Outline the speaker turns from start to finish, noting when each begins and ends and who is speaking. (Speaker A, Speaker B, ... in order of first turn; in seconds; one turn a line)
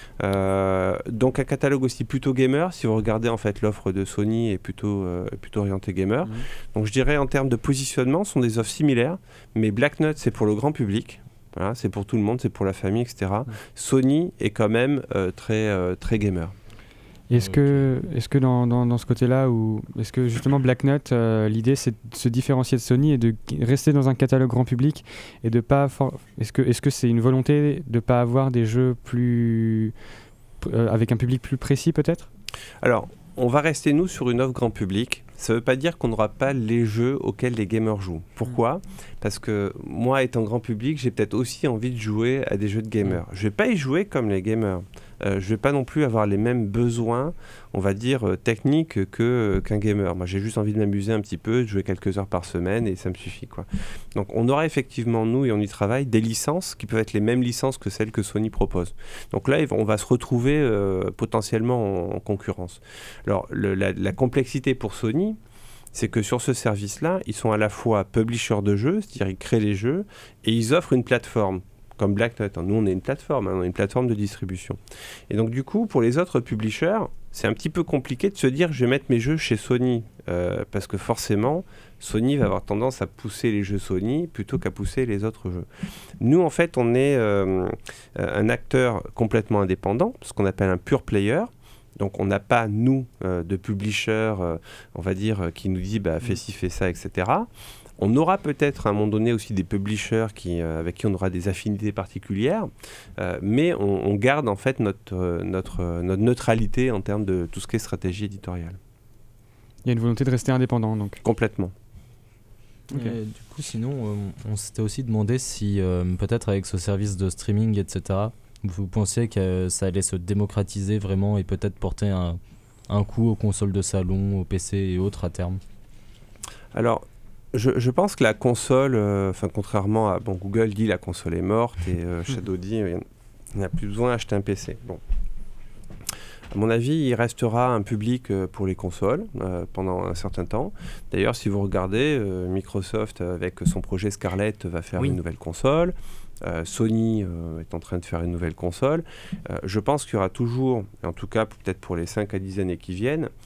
Speaker A: 0.2-16.5
Speaker B: 17.3-29.9
Speaker C: 17.3-17.8
Speaker B: 30.6-32.3
Speaker A: 32.8-65.4
Speaker A: 65.9-74.8
Speaker A: 75.3-85.7
Speaker A: 86.2-97.5
Speaker A: 98.0-108.8
Speaker B: 109.8-111.2
Speaker A: 111.2-111.7
Speaker B: 112.9-113.2
Speaker C: 112.9-125.6
Speaker A: 126.7-135.0
Speaker A: 136.5-153.3